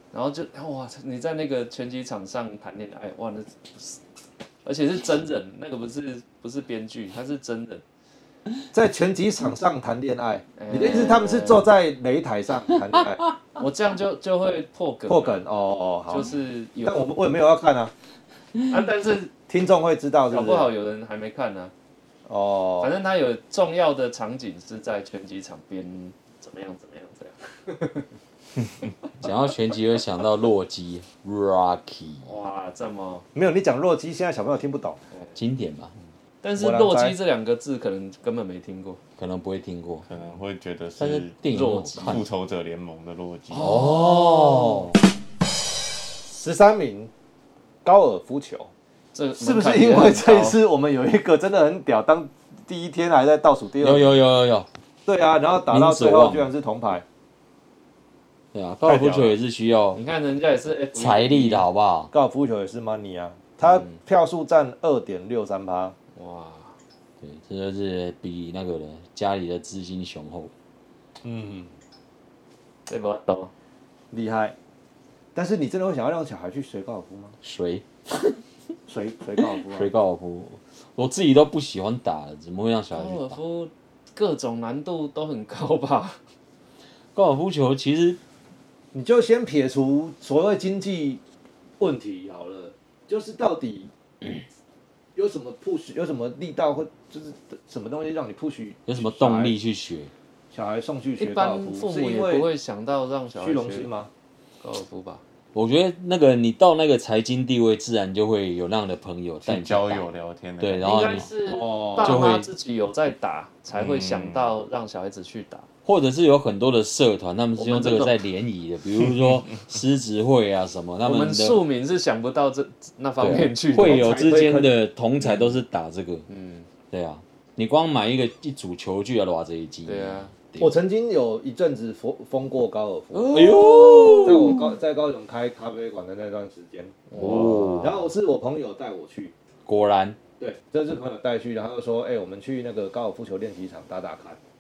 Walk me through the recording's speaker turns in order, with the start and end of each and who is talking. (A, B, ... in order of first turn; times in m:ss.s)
0:00.1-0:04.0 A
0:04.6-0:07.8 A
0:08.7-0:13.2 B
0:10.6-0:11.7 A
0:13.6-0:15.4 A
0:15.1-0:17.9 B
0:16.1-0:17.0 A
0:18.7-0:19.3 A
0:19.5-0:20.7 B
0:20.3-0:21.7 A
0:22.2-0:22.9 B
0:22.8-0:28.1 A
0:29.2-0:32.3 C
0:32.2-0:33.3 A
0:33.3-0:35.0 B
0:35.3-0:35.9 C
0:36.4-0:39.0 A
0:36.6-0:37.2 B
0:39.2-0:40.0 C
0:40.1-0:41.4 D
0:41.0-0:42.2 C
0:41.5-0:42.2 A
0:41.9-0:43.7 D
0:43.5-0:44.9 C
0:43.8-0:44.0 A
0:46.3-0:47.1 B
0:47.8-0:48.7 B
0:49.1-0:50.6 A
0:49.4-0:54.2 B
0:53.8-0:54.7 C
0:55.0-0:57.0 B
0:55.7-0:56.5 C
0:58.5-1:00.0 C
0:58.8-0:59.4 B
0:59.9-1:01.6 A
1:00.9-1:02.1 C
1:02.1-1:05.9 B
1:06.1-1:06.8 A
1:07.2-1:10.5 C
1:11.2-1:11.7 B
1:12.9-1:13.5 A
1:14.1-1:14.5 B
1:15.3-1:17.4 B
1:17.4-1:18.4 C
1:18.9-1:19.9 B
1:19.5-1:23.4 C
1:22.9-1:26.2 A
1:27.1-1:28.2 C
1:28.9-1:31.2 B
1:31.8-1:33.9 B
1:35.1-1:39.6 B
1:38.9-1:40.1 C
1:40.5-1:42.5 B
1:41.2-1:43.9 A
1:43.4-1:44.1 B
1:44.6-1:45.2 A
1:45.5-1:51.3 C
1:49.4-1:51.2 D
1:50.8-1:55.7 A
1:51.5-1:52.2 B
1:52.0-1:52.5 C
1:53.7-1:54.5 D
1:55.8-2:01.6 C
1:57.6-1:58.2 A
2:01.0-2:04.1 A
2:03.2-2:06.2 C
2:03.7-2:04.7 B
2:06.3-2:06.7 A
2:06.9-2:10.8 C
2:09.8-2:10.3 A
2:10.6-2:13.5 B
2:13.1-2:14.5 A
2:13.3-2:14.7 C
2:14.2-2:17.0 B
2:17.1-2:17.9 A
2:17.2-2:18.1 C
2:17.8-2:19.3 B
2:19.6-2:20.2 C
2:20.4-2:24.4 B